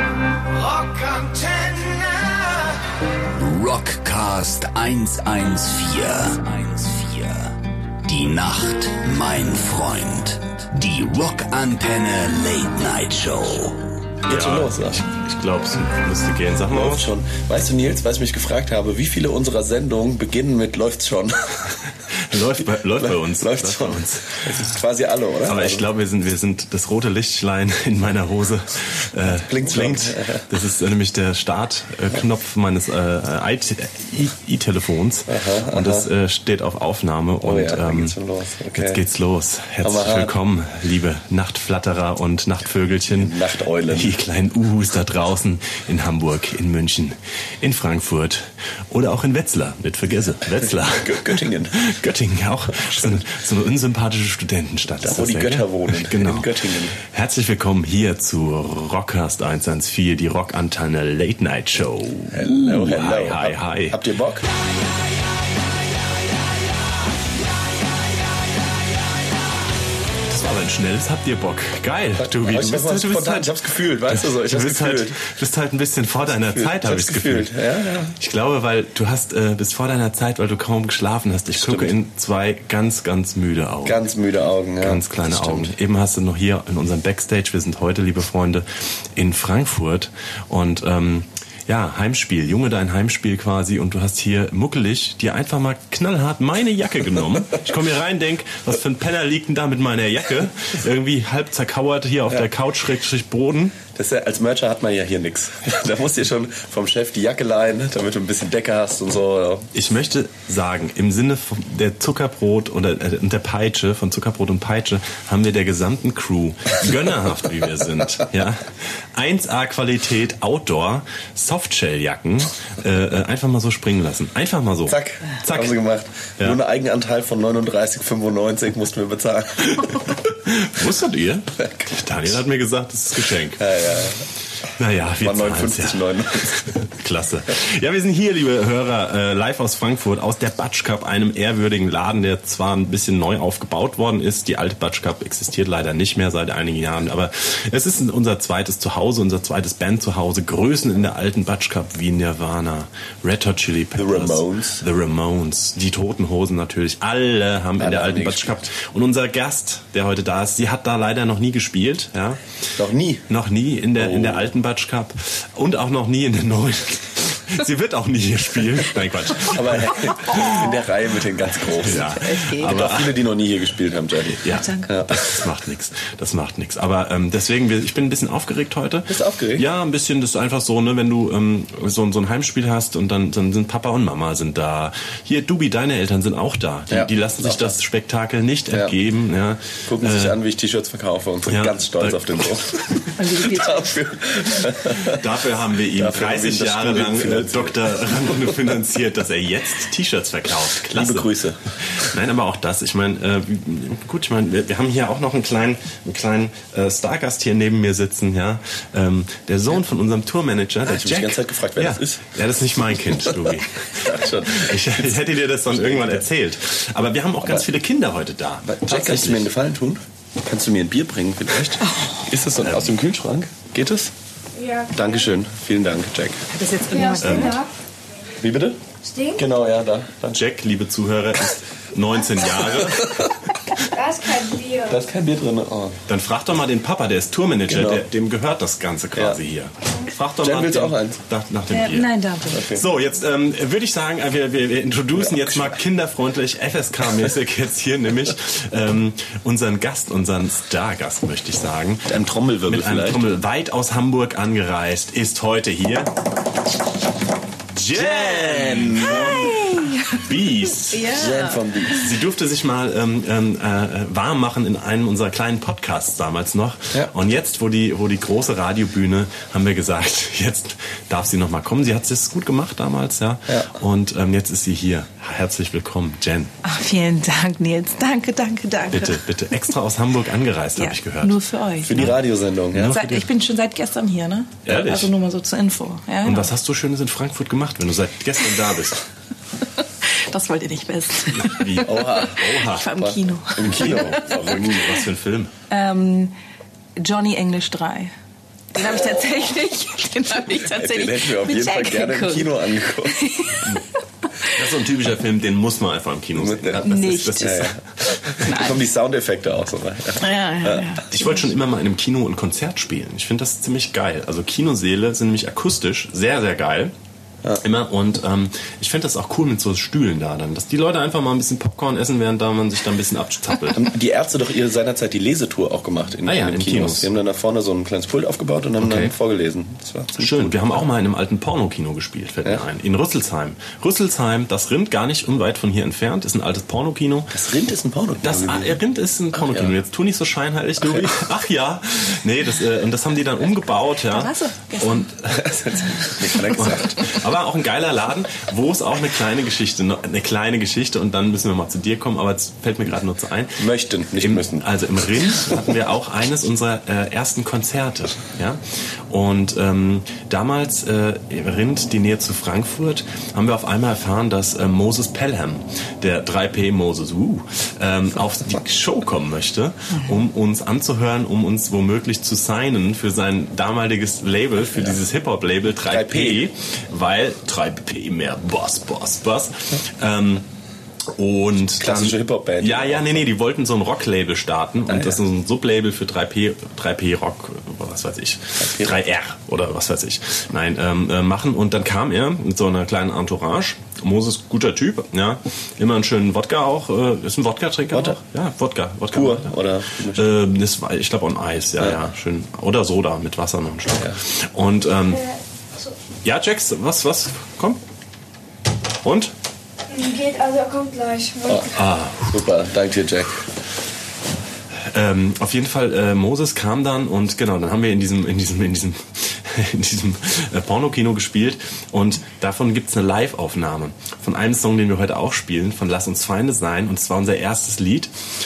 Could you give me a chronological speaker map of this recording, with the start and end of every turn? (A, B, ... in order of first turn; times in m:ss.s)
0:00.5-0:02.8 A
0:03.3-0:13.9 B
0:14.2-0:15.0 C
0:14.2-0:17.1 D
0:16.7-0:21.7 C
0:22.1-0:24.6 D
0:22.8-0:25.8 C
0:25.4-0:38.1 D
0:29.2-0:30.5 C
0:35.3-0:36.1 C
0:37.4-0:39.0 C
0:38.8-0:43.3 D
0:39.8-0:40.3 C
0:43.1-0:44.2 C
0:43.9-1:04.0 D
0:50.8-0:51.8 C
0:55.0-0:57.0 C
1:02.3-1:04.5 C
1:10.3-1:13.5 D
1:12.2-1:15.2 C
1:14.1-1:17.5 D
1:16.4-1:18.2 C
1:18.2-1:24.0 D
1:21.5-1:21.9 C
1:23.8-1:25.7 C
1:24.8-1:43.8 D
1:43.9-1:49.7 C
1:49.7-2:05.8 D
2:04.9-2:10.1 C
2:09.6-2:13.6 D
2:11.6-2:11.9 C
2:13.6-2:14.2 C
2:14.8-2:42.4 D
2:15.2-2:16.8 C
2:33.9-2:34.8 C
2:37.8-2:38.6 C
2:42.8-2:43.3 C
2:43.3-2:50.6 D
2:44.0-2:44.5 C
2:49.4-2:55.2 C
2:50.2-2:50.6 E
2:51.6-2:53.4 D
2:52.1-2:52.8 E
2:54.4-3:10.4 D
2:54.5-2:54.9 E
2:59.1-2:59.7 C
3:06.9-3:07.7 C
3:09.8-3:15.3 C
3:11.5-3:12.6 D
3:13.1-3:14.0 E
3:15.0-3:21.3 D
3:15.9-3:18.5 C
3:20.9-3:21.6 C
3:21.8-3:39.5 D
3:30.8-3:32.3 C
3:33.0-3:36.2 C
3:37.4-3:37.7 C
3:38.7-3:44.1 C
3:42.6-3:43.0 D
3:44.6-3:45.3 A
3:44.9-3:46.4 C
3:46.5-3:47.6 E
3:46.9-3:47.7 A
3:47.2-3:47.6 D
3:48.4-3:48.8 C
3:49.0-3:49.4 A
3:49.3-3:50.4 C
3:50.3-3:53.3 D
3:52.6-3:53.3 C
3:53.8-3:55.0 A
3:54.9-3:56.0 C
3:56.1-4:16.1 D
3:57.7-3:58.1 C
3:59.1-3:59.4 C
4:00.4-4:01.2 C
4:01.7-4:02.7 E
4:02.5-4:02.9 C
4:05.2-4:05.7 C
4:12.1-4:13.2 C
4:17.7-4:21.2 D
4:17.9-4:19.5 C
4:19.0-4:20.2 E
4:20.8-4:21.6 E
4:21.0-4:22.1 C
4:21.9-4:36.5 D
4:36.6-4:39.2 E
4:38.9-4:41.4 D
4:40.8-4:42.2 E
4:41.8-4:43.0 C
4:42.7-4:43.3 D
4:42.8-4:46.5 E
4:44.6-4:45.1 D
4:46.2-4:49.0 D
4:50.0-4:54.3 E
4:51.3-4:53.0 D
4:51.8-4:55.0 C
4:53.6-4:55.5 D
4:55.7-4:56.3 E
4:57.0-4:58.1 E
4:58.7-5:04.6 E
5:00.6-5:03.2 C
5:04.4-5:08.5 D
5:06.3-5:06.9 C
5:06.8-5:07.6 E
5:07.4-5:07.8 C
5:08.3-5:10.9 C
5:08.4-5:08.8 E
5:10.2-5:11.5 E
5:11.1-5:16.9 D
5:17.6-5:23.9 D
5:23.7-5:30.5 C
5:26.2-5:27.1 D
5:28.8-5:29.1 D
5:30.2-5:37.4 D
5:37.3-5:38.8 C
5:38.2-5:45.6 D
5:39.3-5:39.7 C
5:44.1-5:45.0 E
5:45.3-5:47.2 C
5:46.4-6:20.4 D
5:53.6-5:54.6 C
6:15.9-6:16.4 C
6:21.2-6:45.2 D
6:21.8-6:23.3 C
6:24.9-6:25.2 C
6:28.6-6:29.0 C
6:37.9-6:38.2 C
6:39.1-6:40.3 C
6:41.8-6:42.1 C
6:46.2-6:47.8 D
6:49.0-6:49.3 D
6:49.9-6:51.8 A
6:51.5-6:53.4 C
6:51.7-6:52.4 D
6:54.8-7:08.1 D